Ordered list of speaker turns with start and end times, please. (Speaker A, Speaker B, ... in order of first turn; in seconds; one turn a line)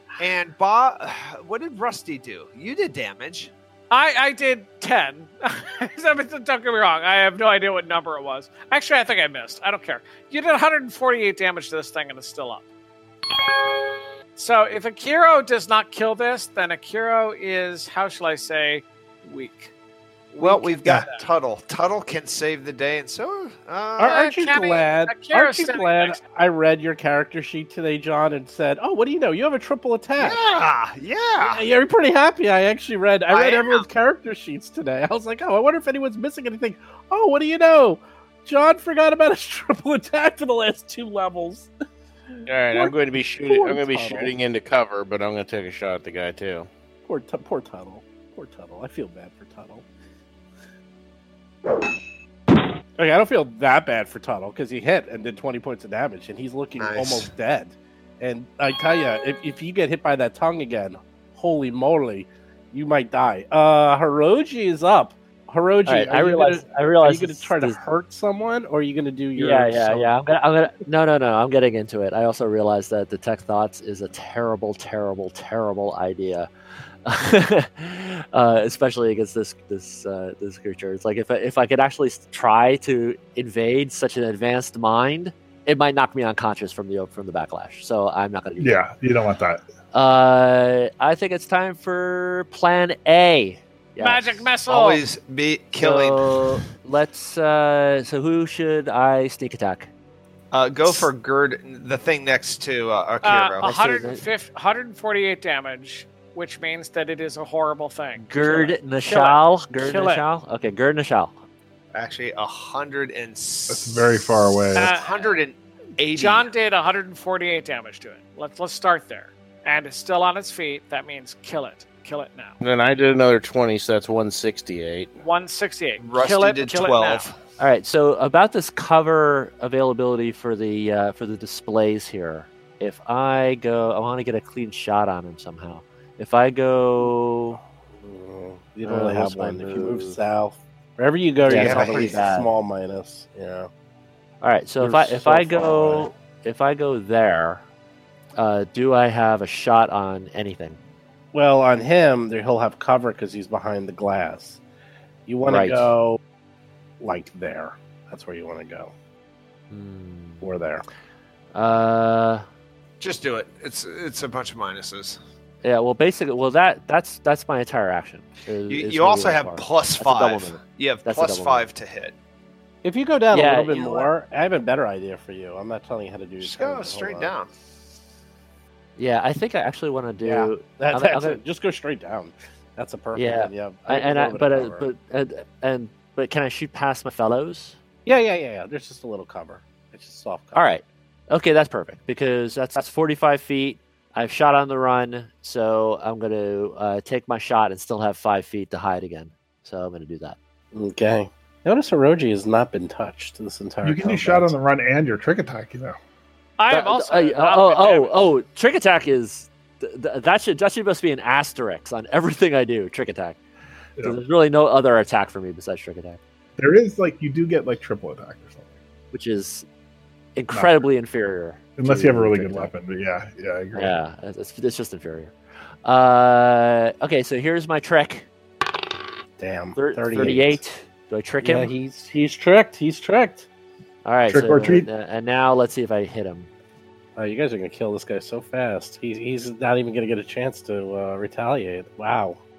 Speaker A: 0.2-3.5
Speaker B: 3.9-12.7
Speaker B: 14.4-19.7
Speaker B: 20.3-21.2
Speaker A: 20.4-24.3
Speaker C: 24.0-30.4
Speaker B: 24.1-26.2
Speaker A: 30.2-31.6
Speaker C: 31.4-41.7
Speaker A: 33.3-33.9
Speaker D: 42.5-46.7
Speaker C: 42.7-44.3
Speaker C: 47.0-49.9
Speaker C: 53.0-70.1
Speaker A: 56.8-57.3
Speaker E: 65.9-67.8
Speaker E: 69.4-76.5
Speaker E: 77.0-88.8
Speaker F: 88.6-89.6
Speaker E: 89.9-94.5
Speaker B: 94.0-95.0
Speaker A: 94.7-96.7
Speaker E: 95.8-99.9
Speaker A: 100.5-103.7
Speaker B: 103.2-110.2
Speaker E: 103.6-104.2
Speaker E: 108.2-111.4
Speaker A: 111.9-116.5
Speaker F: 113.7-114.9
Speaker B: 114.8-115.4
Speaker B: 116.1-122.6
Speaker D: 122.6-125.2
Speaker B: 125.2-127.3
Speaker A: 126.0-127.4
Speaker E: 127.6-137.6
Speaker C: 138.0-143.7
Speaker E: 138.8-140.2
Speaker E: 141.4-142.5
Speaker A: 141.5-142.3
Speaker E: 144.4-147.6
Speaker C: 144.8-146.1
Speaker E: 148.4-150.8
Speaker C: 151.3-154.6
Speaker C: 155.3-156.2
Speaker E: 155.4-155.9
Speaker C: 157.0-158.9
Speaker E: 159.7-160.5
Speaker C: 160.4-160.8
Speaker E: 161.5-162.5
Speaker A: 163.0-165.2
Speaker E: 165.6-171.7
Speaker A: 168.7-172.2
Speaker C: 172.8-177.3
Speaker E: 173.3-174.1
Speaker A: 176.4-177.5
Speaker E: 179.0-181.4
Speaker C: 180.2-184.9
Speaker E: 183.2-187.8
Speaker C: 188.1-190.7
Speaker E: 190.6-200.4
Speaker C: 200.7-204.6
Speaker F: 203.8-206.0
Speaker B: 206.6-208.2
Speaker E: 206.7-213.4
Speaker E: 214.0-216.2
Speaker F: 216.6-218.7
Speaker E: 219.1-219.7
Speaker E: 220.4-222.7
Speaker F: 221.8-224.0
Speaker E: 223.8-225.3
Speaker E: 225.8-228.3
Speaker C: 229.4-230.6
Speaker E: 229.8-231.7
Speaker C: 231.4-233.5
Speaker E: 234.1-236.5
Speaker F: 234.3-234.9
Speaker C: 237.2-242.4